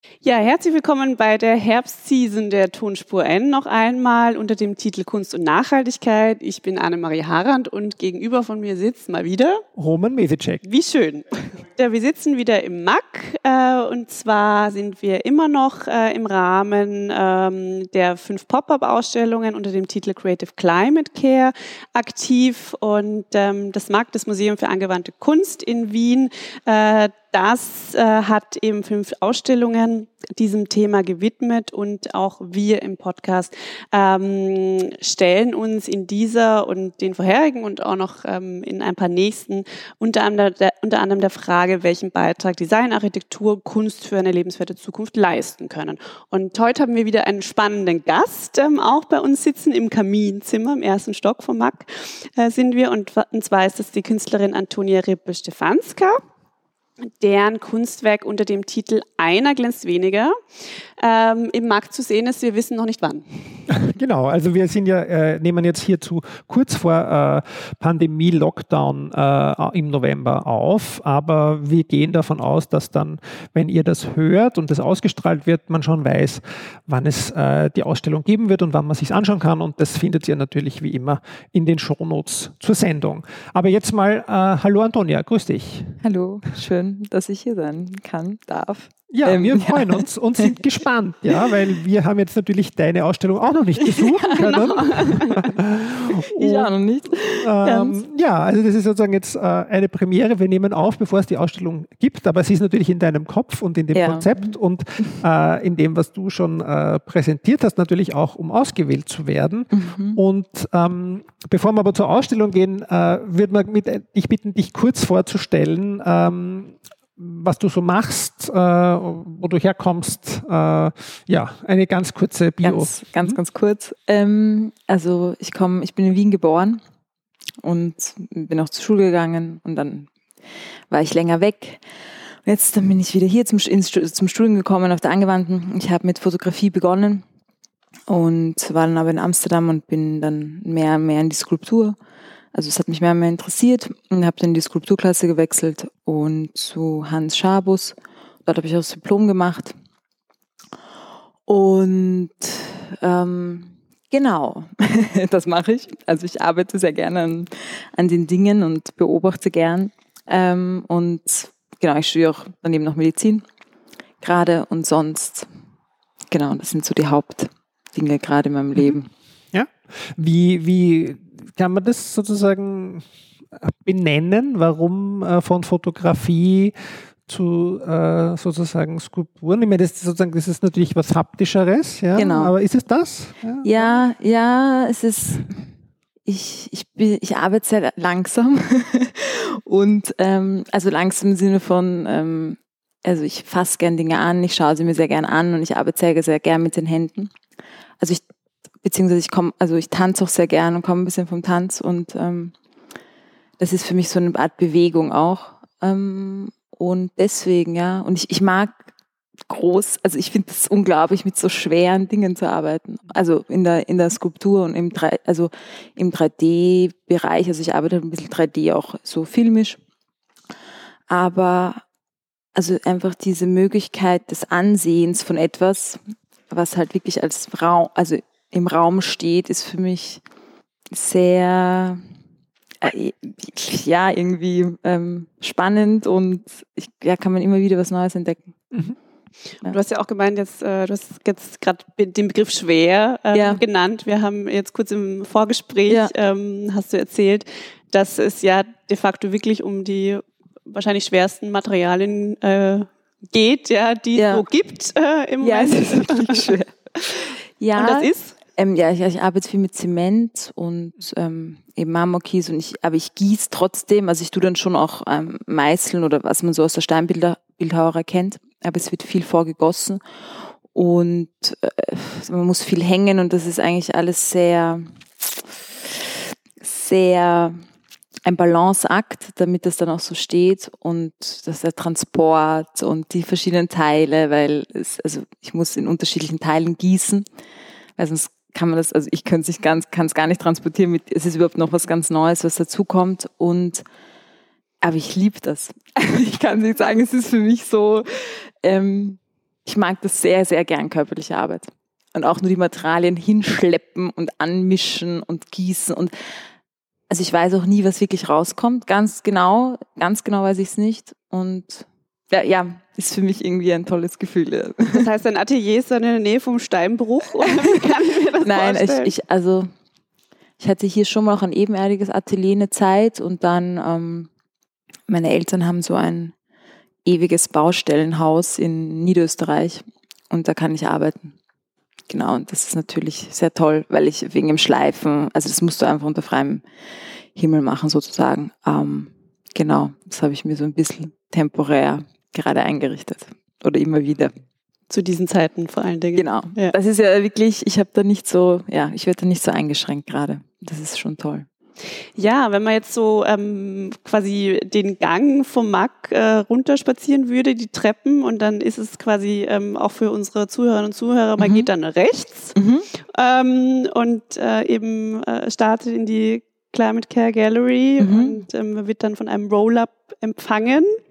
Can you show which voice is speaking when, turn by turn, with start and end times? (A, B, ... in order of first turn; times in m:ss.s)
0:00.2-0:09.6 A
0:09.8-0:10.6 B
0:10.6-0:56.2 A
0:57.1-1:00.3 A
1:01.0-1:03.6 A
1:03.7-1:26.0 B
1:26.0-1:30.6 C
1:29.1-2:03.4 B
1:33.8-1:34.7 C
1:34.3-1:35.5 A
1:36.1-1:38.0 C
1:43.9-1:45.2 C
1:49.7-1:50.2 C
2:02.6-2:06.8 C
2:07.6-2:10.1 C
2:10.9-2:11.8 C
2:12.4-2:17.2 C
2:18.1-2:22.0 C
2:22.5-2:29.7 C
2:31.5-2:43.4 C
2:44.2-2:45.5 C
2:46.3-2:49.1 C
2:49.5-2:56.7 B
2:57.2-3:04.0 B
3:02.1-3:02.5 C
3:03.6-3:05.7 C
3:06.2-3:17.3 C
3:18.8-3:22.5 C
3:23.6-3:28.8 C
3:29.5-3:39.8 C
3:41.1-3:41.8 C
3:42.5-3:50.2 C
3:50.9-3:52.0 C
3:52.8-3:58.5 C
3:59.7-4:16.5 A
4:03.3-4:03.6 C
4:14.2-4:14.4 C
4:15.4-4:30.0 C
4:17.8-4:18.3 A
4:30.7-4:34.9 C
4:36.6-4:37.6 C
4:38.2-4:47.2 C
4:48.0-4:53.8 C
4:54.8-5:06.1 C
5:07.1-5:15.0 C
5:14.9-5:19.1 A
5:17.4-5:17.9 C
5:18.4-5:19.7 C
5:20.6-5:24.3 C
5:25.1-5:26.3 C
5:27.0-5:31.3 C
5:32.1-5:36.6 C
5:37.3-5:44.3 C
5:44.9-5:46.7 A
5:46.1-5:51.4 C
5:52.2-6:02.5 A
6:01.4-6:01.7 C
6:02.5-6:02.9 C
6:03.1-6:11.0 A
6:08.0-6:08.4 C